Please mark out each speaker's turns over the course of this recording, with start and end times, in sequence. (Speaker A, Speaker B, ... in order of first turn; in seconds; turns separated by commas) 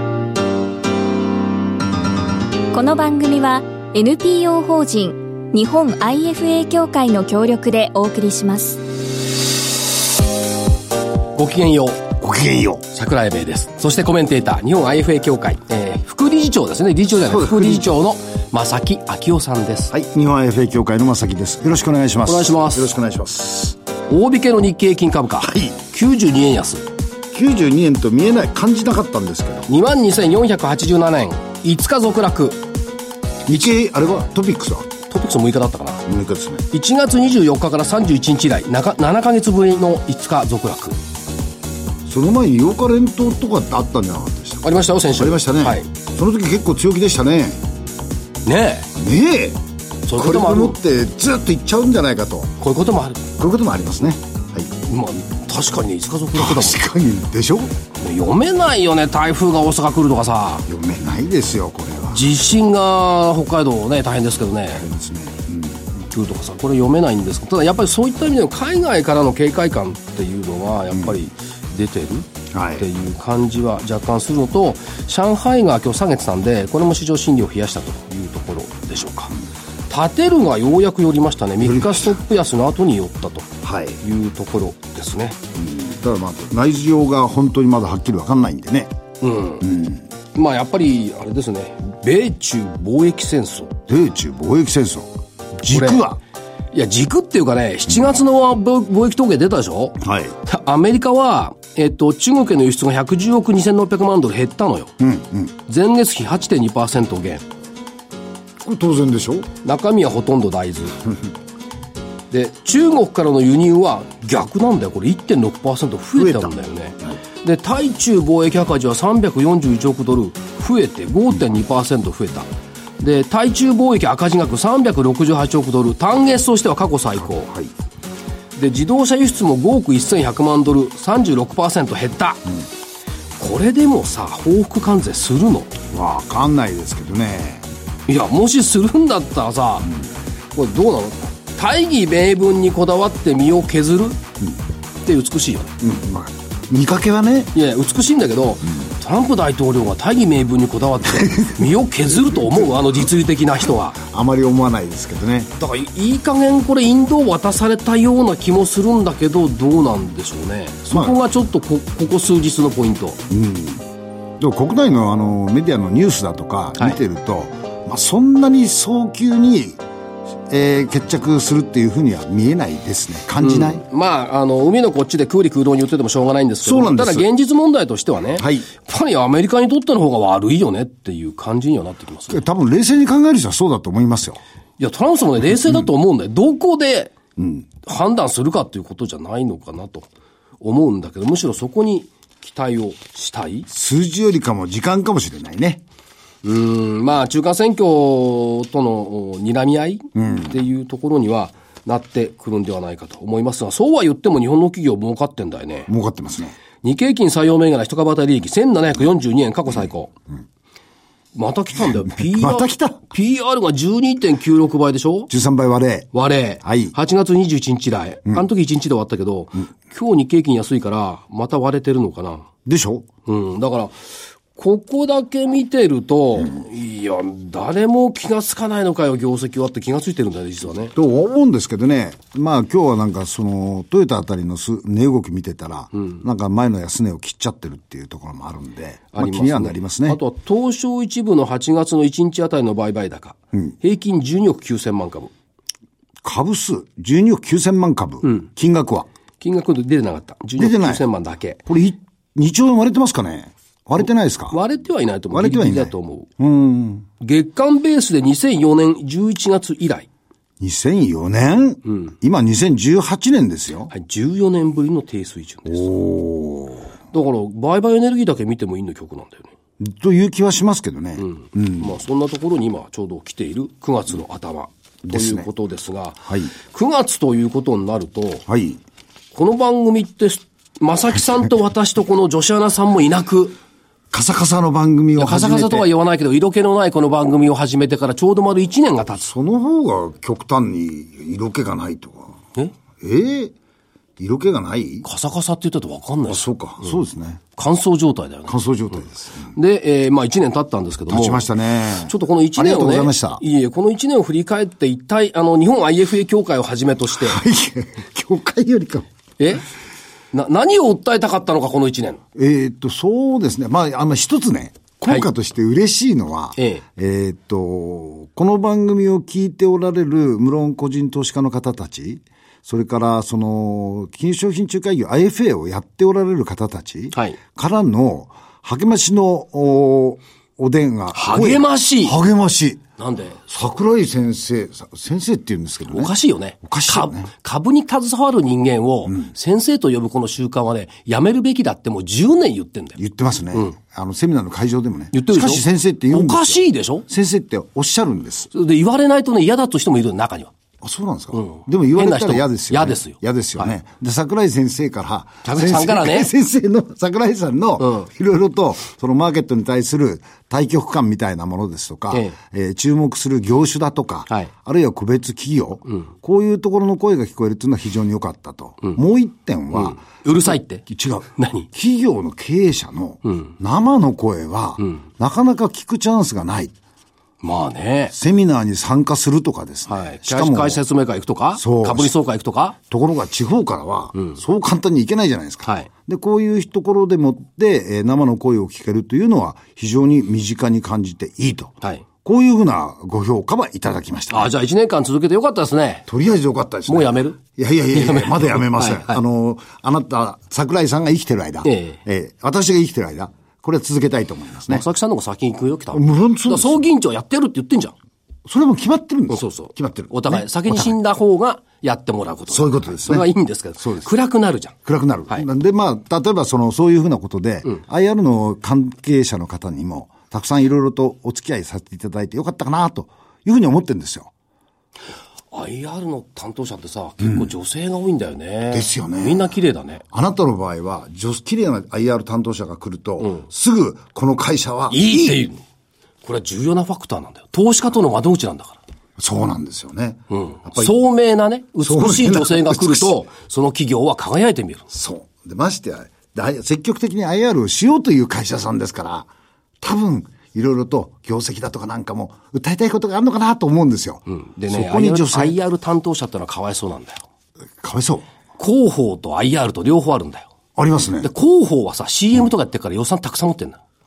Speaker A: 2.7-8.8, Speaker B: 11.3-12.1, Speaker C: 12.2-12.8, Speaker B: 12.9-19.9, Speaker C: 17.2-17.9, Speaker C: 19.9-23.8, Speaker B: 22.2-22.9, Speaker B: 24.1-26.9, Speaker C: 25.4-25.8, Speaker C: 27.3-29.7, Speaker B: 29.7-32.6, Speaker C: 33.5-34.9, Speaker B: 35.1-36.0, Speaker C: 36.1-36.6, Speaker B: 36.7-41.0, Speaker C: 42.0-47.6, Speaker B: 44.6-45.9, Speaker B: 48.4-48.9, Speaker C: 49.0-49.6, Speaker B: 50.0-50.8, Speaker C: 50.1-52.5, Speaker B: 52.6-53.3, Speaker C: 53.4-54.7, Speaker B: 54.8-56.8, Speaker C: 56.3-57.7, Speaker B: 58.0-60.7, Speaker C: 60.7-62.3, Speaker B: 62.1-64.8, Speaker C: 64.7-66.1, Speaker B: 66.1-79.3, Speaker C: 70.9-71.2, Speaker C: 72.5-72.9, Speaker B: 79.9-85.4, Speaker C: 81.6-82.2, Speaker C: 83.6-84.0, Speaker C: 85.5-88.9, Speaker B: 89.2-89.7, Speaker C: 89.6-90.1, Speaker B: 90.3-93.8, Speaker C: 93.9-96.2, Speaker B: 95.7-96.0, Speaker B: 96.7-104.9, Speaker C: 100.0-100.3, Speaker C: 105.0-105.5, Speaker B: 105.7-107.4, Speaker C: 108.6-109.5, Speaker B: 109.6-111.0, Speaker B: 112.3-122.5, Speaker C: 116.2-116.5, Speaker B: 123.0-127.5, Speaker B: 128.5-132.4, Speaker B: 133.4-135.7, Speaker C: 135.9-137.7, Speaker B: 138.1-139.9, Speaker B: 140.5-144.2, Speaker B: 145.0-145.7, Speaker C: 145.8-147.5, Speaker B: 147.5-154.0, Speaker C: 151.2-153.0, Speaker C: 153.9-155.5, Speaker B: 155.6-163.2, Speaker C: 160.9-161.2, Speaker C: 163.3-163.8, Speaker C: 164.4-169.8, Speaker C: 170.5-173.8, Speaker B: 173.4-182.4, Speaker C: 176.6-177.2, Speaker C: 178.4-178.7, Speaker C: 182.3-184.4, Speaker B: 184.8-187.1, Speaker C: 187.4-187.7, Speaker B: 187.8-190.1, Speaker B: 190.6-193.7, Speaker C: 193.7-195.8, Speaker B: 196.4-205.9, Speaker C: 200.1-200.5, Speaker C: 205.9-206.6, Speaker B: 206.8-210.1, Speaker B: 211.3-215.3, Speaker C: 212.1-213.0, Speaker C: 215.3-216.1, Speaker B: 216.1-222.5, Speaker C: 216.6-216.9, Speaker C: 222.6-223.1, Speaker B: 223.2-223.9, Speaker B: 224.5-230.9, Speaker C: 230.9-240.2, Speaker B: 236.0-236.2, Speaker B: 239.1-245.3, Speaker C: 246.2-249.1, Speaker B: 249.4-251.6, Speaker C: 250.6-251.0, Speaker C: 251.7-254.6, Speaker B: 254.5-256.3, Speaker C: 255.3-257.1, Speaker B: 257.2-260.1, Speaker C: 260.6-263.9, Speaker B: 261.9-262.1, Speaker B: 263.9-265.9, Speaker C: 265.6-266.9, Speaker B: 267.1-269.5, Speaker C: 269.8-272.0, Speaker B: 271.2-278.4, Speaker C: 275.0-275.5, Speaker C: 276.3-276.5, Speaker C: 278.5-278.8, Speaker B: 279.3-283.6, Speaker C: 284.1-285.9, Speaker B: 285.1-289.2, Speaker C: 289.2-292.4, Speaker C: 293.0-293.5, Speaker C: 294.2-295.1, Speaker B: 295.0-296.4, Speaker C: 296.3-297.4, Speaker B: 297.6-298.6, Speaker C: 298.5-299.5, Speaker B: 299.5-301.5, Speaker C: 301.1-303.4, Speaker B: 302.0-307.4, Speaker C: 307.1-309.1, Speaker B: 309.4-309.6, Speaker B: 310.3-312.2, Speaker C: 312.3-332.8, Speaker B: 316.6-316.8, Speaker B: 331.1-332.1, Speaker B: 333.0-333.4, Speaker C: 333.5-336.1, Speaker B: 335.9-343.0, Speaker C: 336.6-337.3, Speaker C: 343.0-348.5, Speaker B: 345.1-347.0, Speaker B: 348.5-350.5, Speaker C: 350.8-376.7, Speaker B: 351.3-353.7, Speaker B: 355.4-356.3, Speaker B: 357.8-358.1, Speaker B: 369.7-371.7, Speaker B: 373.2-373.5, Speaker B: 377.4-378.1, Speaker C: 378.1-380.8, Speaker B: 379.9-382.8, Speaker C: 381.6-382.1, Speaker C: 382.9-394.5, Speaker B: 394.3-396.1, Speaker C: 396.1-404.8, Speaker B: 396.9-397.4, Speaker B: 397.9-399.2, Speaker B: 401.6-402.0, Speaker B: 404.7-407.9, Speaker C: 405.9-406.8, Speaker C: 408.4-411.0, Speaker B: 409.3-414.7, Speaker C: 412.5-413.3, Speaker C: 413.8-414.1, Speaker C: 414.8-424.3, Speaker B: 425.5-430.0, Speaker C: 427.2-427.5, Speaker C: 428.7-429.5, Speaker C: 430.1-435.4, Speaker B: 434.9-435.6, Speaker B: 436.2-438.8, Speaker C: 439.2-440.9, Speaker B: 440.3-444.9, Speaker C: 441.8-443.1, Speaker C: 444.9-449.3, Speaker C: 449.8-455.6, Speaker B: 454.3-457.2, Speaker C: 457.8-458.2, Speaker B: 458.6-460.5, Speaker C: 460.8-461.3, Speaker B: 461.2-463.8